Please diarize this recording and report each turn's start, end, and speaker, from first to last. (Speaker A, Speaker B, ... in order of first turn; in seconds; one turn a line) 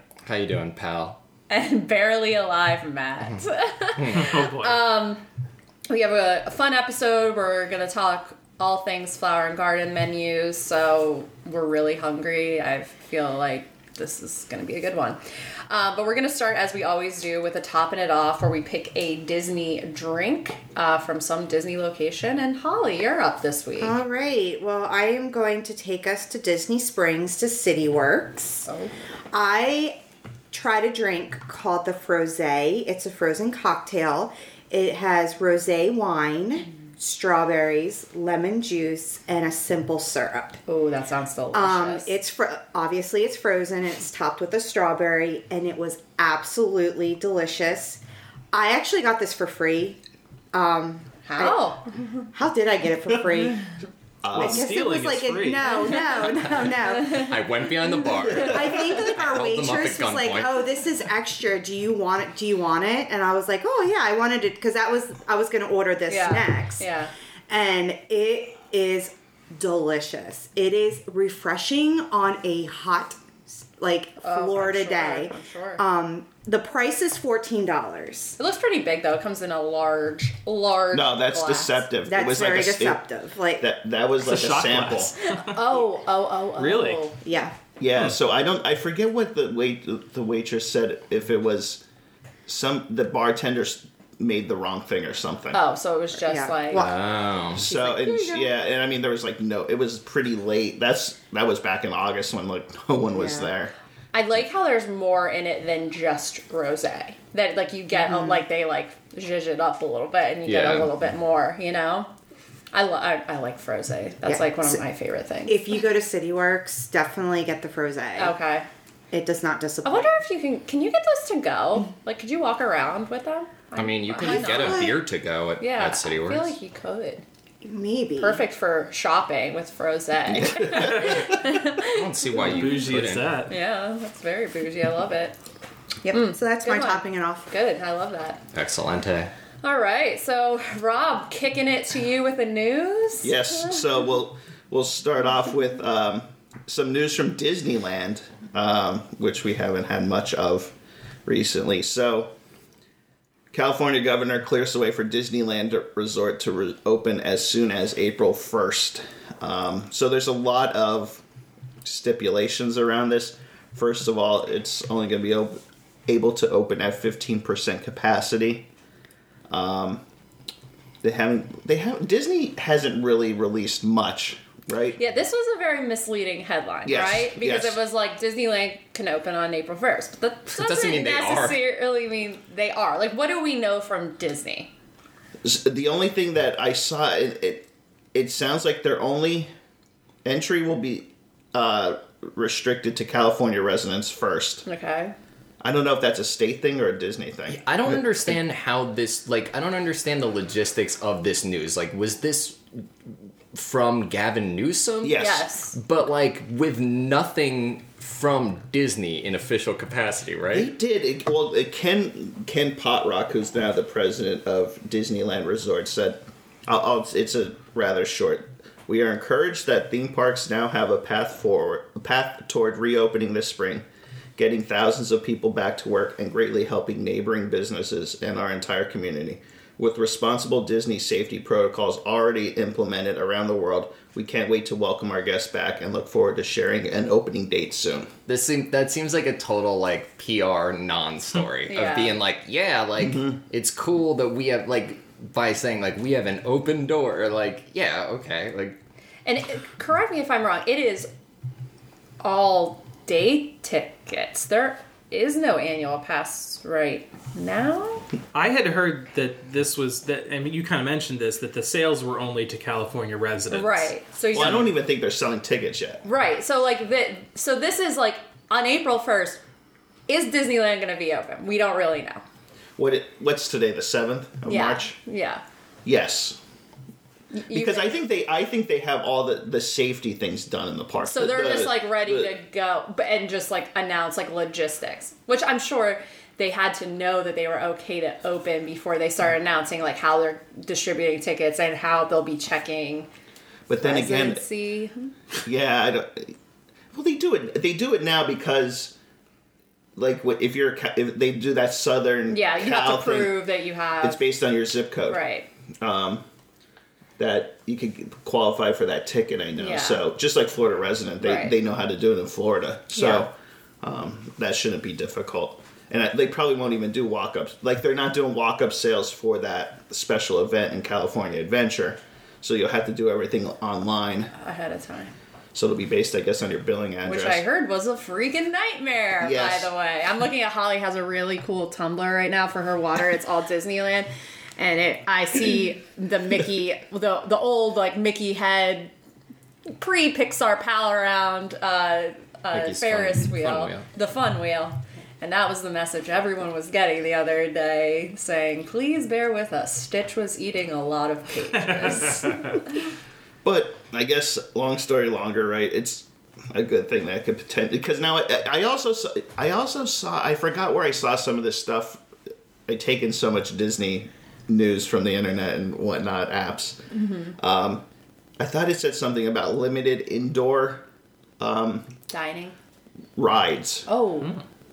Speaker A: 0.2-1.2
Speaker B: 1.5-5.2
Speaker A: 4.0-4.3
Speaker C: 4.1-4.8
Speaker B: 5.9-15.2
Speaker B: 15.7-23.9
Speaker D: 23.8-28.7
Speaker B: 28.6-28.9
Speaker D: 29.3-30.0
Speaker D: 30.5-40.6
Speaker B: 40.7-42.1
Speaker D: 41.5-48.0
Speaker D: 48.5-50.0
Speaker D: 50.5-51.7
Speaker B: 51.2-52.2
Speaker D: 52.3-53.7
Speaker E: 54.2-54.7
Speaker C: 54.3-56.1
Speaker D: 54.3-57.4
Speaker A: 56.6-60.7
Speaker D: 58.3-66.9
Speaker B: 66.1-67.1
Speaker D: 67.5-78.4
Speaker B: 74.2-75.8
Speaker B: 78.4-81.8
Speaker E: 80.9-83.0
Speaker D: 82.0-83.7
Speaker E: 83.6-85.1
Speaker C: 84.2-85.5
Speaker B: 85.2-87.2
Speaker C: 86.6-87.0
Speaker D: 87.2-87.5
Speaker E: 87.8-91.8
Speaker E: 92.5-95.6
Speaker B: 95.5-96.9
Speaker D: 96.2-97.0
Speaker A: 96.7-97.7
Speaker E: 97.5-103.7
Speaker D: 97.5-98.5
Speaker D: 103.1-103.5
Speaker B: 104.1-112.1
Speaker D: 108.0-108.3
Speaker A: 110.5-110.9
Speaker B: 112.7-115.6
Speaker D: 114.2-114.8
Speaker D: 115.5-118.3
Speaker B: 118.2-118.7
Speaker D: 119.1-120.2
Speaker B: 119.8-125.0
Speaker A: 123.8-126.5
Speaker D: 124.2-124.9
Speaker B: 125.6-127.2
Speaker D: 127.6-128.4
Speaker B: 128.2-132.9
Speaker E: 130.3-131.3
Speaker C: 130.7-131.1
Speaker A: 131.8-133.4
Speaker C: 132.3-133.5
Speaker B: 133.5-135.3
Speaker D: 136.0-137.5
Speaker B: 136.1-138.4
Speaker A: 138.5-139.3
Speaker B: 139.6-143.9
Speaker E: 143.2-150.7
Speaker E: 151.2-152.3
Speaker E: 153.5-161.2
Speaker E: 161.8-168.7
Speaker E: 169.5-170.0
Speaker E: 171.0-175.0
Speaker B: 175.0-184.7
Speaker E: 176.9-177.8
Speaker A: 180.5-181.6
Speaker E: 185.4-189.5
Speaker E: 190.2-194.6
Speaker B: 194.7-195.1
Speaker E: 195.6-197.6
Speaker A: 197.5-202.6
Speaker A: 203.5-210.7
Speaker E: 205.0-205.4
Speaker B: 205.2-205.8
Speaker E: 210.5-238.1
Speaker A: 238.3-248.8
Speaker B: 241.7-242.2
Speaker E: 243.1-243.3
Speaker B: 249.2-251.1
Speaker B: 252.2-258.0
Speaker C: 258.3-264.7
Speaker B: 263.5-264.7
Speaker E: 264.3-266.0
Speaker B: 266.0-269.4
Speaker B: 270.1-272.2
Speaker E: 272.8-275.0
Speaker B: 274.4-275.4
Speaker E: 275.8-276.4
Speaker B: 277.3-277.9
Speaker E: 277.5-282.3
Speaker B: 281.0-293.1
Speaker E: 293.7-294.4
Speaker B: 293.7-295.1
Speaker E: 295.4-296.3
Speaker E: 296.9-298.9
Speaker E: 299.9-303.4
Speaker B: 302.3-304.3
Speaker E: 304.0-305.2
Speaker B: 305.1-305.5
Speaker E: 305.8-306.2
Speaker E: 307.2-324.3
Speaker B: 309.6-310.0
Speaker B: 311.2-311.5
Speaker B: 312.9-313.2
Speaker B: 324.3-325.1
Speaker E: 325.5-327.4
Speaker B: 327.0-338.9
Speaker E: 329.2-329.7
Speaker B: 339.7-352.6
Speaker A: 342.5-343.9
Speaker C: 351.7-352.3
Speaker E: 353.4-362.0
Speaker E: 362.6-366.8
Speaker B: 366.9-367.4
Speaker E: 367.4-367.8
Speaker E: 368.4-370.8
Speaker E: 371.4-371.9
Speaker B: 372.1-372.6
Speaker E: 373.1-373.9
Speaker B: 373.9-374.4